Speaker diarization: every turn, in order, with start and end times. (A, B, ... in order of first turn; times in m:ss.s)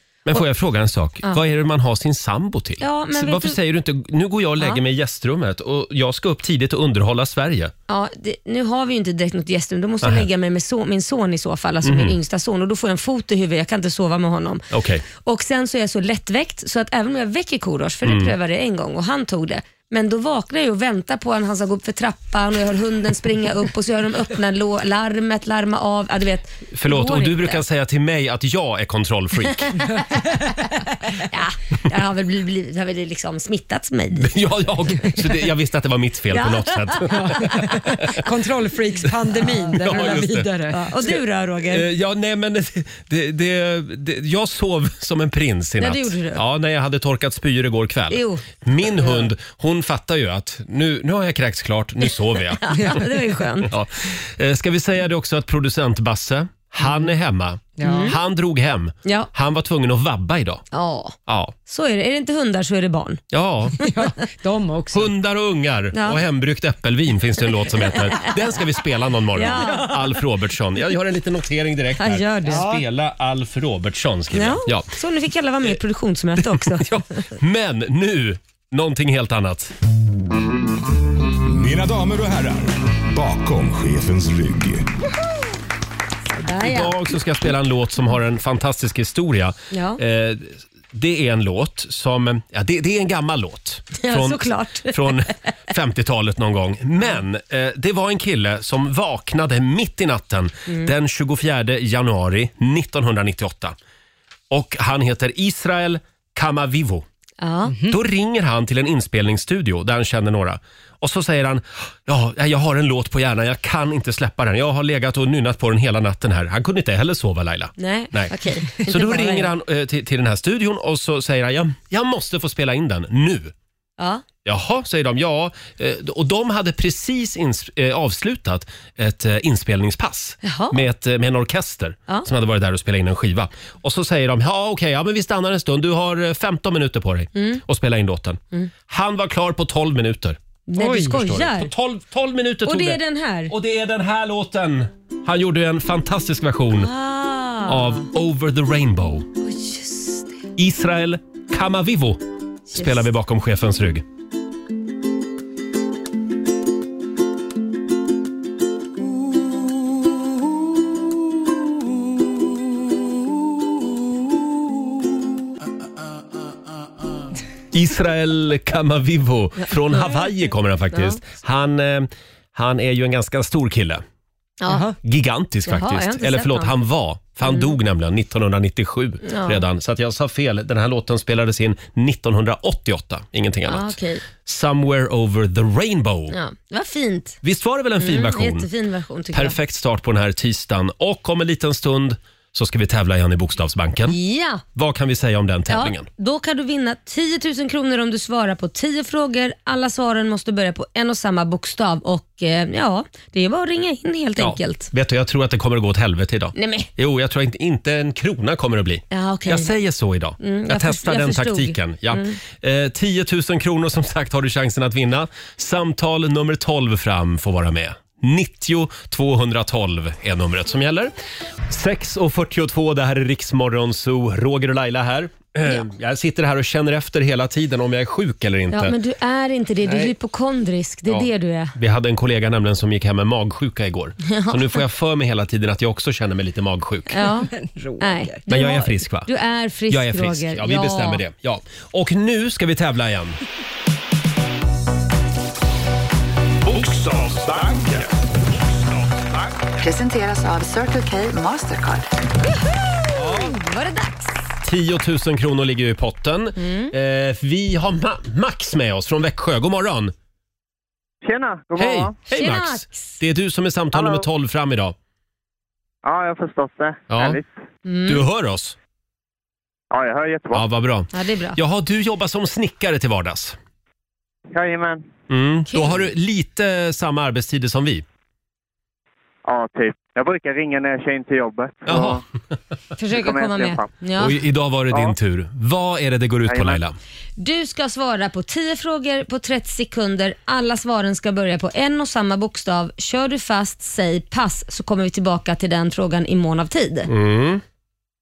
0:00.2-0:07.7 A
0:02.8-0:03.6 B
0:07.9-0:14.6 B
0:11.8-0:12.2 A
0:14.7-0:15.0 A
0:15.2-0:27.6 B
0:18.1-0:18.3 A
0:26.7-0:29.8 A
0:29.6-0:30.6 B
0:31.2-0:34.3 B
0:34.2-0:38.2 A
0:36.3-0:37.7 B
0:37.2-0:40.9 C
0:39.7-0:40.5 A
0:40.7-0:41.9 B
0:41.0-0:52.6 A
0:45.8-0:46.4 B
0:48.1-0:48.4 B
0:52.3-0:53.7 B
0:52.7-0:53.2 C
0:53.7-1:00.6 A
0:57.8-0:58.1 C
0:57.8-0:58.2 B
0:59.0-0:59.3 B
1:00.7-1:01.2 B
1:01.3-1:01.5 A
1:01.7-1:03.2 B
1:03.3-1:03.8 A
1:03.8-1:05.1 C
1:04.9-1:14.9 A
1:05.9-1:06.2 B
1:07.6-1:08.3 B
1:09.3-1:10.1 B
1:09.6-1:09.9 C
1:12.0-1:12.6 B
1:12.4-1:12.8 C
1:14.3-1:17.2 B
1:16.4-1:19.7 A
1:21.4-1:24.9 D
1:26.3-1:27.1 B
1:26.6-1:43.7 A
1:29.7-1:30.0 B
1:34.0-1:35.2 B
1:44.5-1:47.0 A
1:47.4-1:47.8 B
1:47.7-1:48.0 C
1:47.9-2:03.5 A
1:57.8-1:59.5 B
2:04.0-2:04.2 B
2:04.4-2:26.9 A
2:10.4-2:10.8 B
2:17.4-2:17.6 B
2:20.7-2:21.7 B
2:20.8-2:21.1 C
2:22.6-2:23.5 B
2:26.8-2:28.0 B
2:27.7-2:29.2 A
2:29.4-2:30.3 B
2:30.6-2:34.0 A
2:32.7-2:33.0 B
2:47.7-2:54.0 A
2:49.7-2:50.2 B
2:50.9-2:51.2 B
2:54.6-2:54.9 B
2:54.7-2:54.9 C
2:55.0-3:06.3 A
2:55.7-2:56.7 B
2:57.4-2:57.7 B
2:59.2-2:59.6 B
3:03.7-3:04.2 B
3:06.3-3:07.4 B
3:07.4-3:08.7 A
3:08.0-3:09.6 B
3:09.3-3:14.2 A
3:14.1-3:14.6 B
3:14.7-3:16.1 A
3:15.7-3:24.9 B
3:24.4-3:41.1 A
3:26.5-3:26.9 B
3:29.1-3:29.7 B
3:30.4-3:32.4 B
3:41.7-3:49.0 A
3:48.7-3:51.7 B
3:49.8-3:50.1 A
3:51.1-3:57.2 A
3:54.3-3:54.8 B
3:57.1-4:01.2 B
3:57.5-3:58.4 C
3:58.5-3:59.3 A
3:59.9-4:03.4 A
4:06.6-4:09.5 D
4:09.8-4:12.1 E
4:12.7-4:14.4 B
4:13.1-4:13.5 A
4:14.6-4:20.1 A
4:16.6-4:16.9 B
4:21.2-4:22.1 F
4:21.8-4:25.0 A
4:22.3-4:23.2 B
4:23.9-4:24.2 F
4:26.0-4:27.5 F
4:27.1-4:27.4 A
4:27.9-4:28.2 B
4:28.1-4:28.8 A
4:29.9-4:30.6 F
4:30.5-4:33.6 A
4:31.1-4:31.6 B
4:34.5-4:35.0 F
4:35.3-4:38.0 A
4:35.7-4:36.0 B
4:39.4-4:42.2 F
4:41.9-4:42.2 A
4:43.0-4:44.4 B
4:43.1-4:43.9 F
4:44.2-4:47.0 A
4:46.5-4:46.8 F
4:47.4-4:57.1 B
4:57.1-4:57.6 A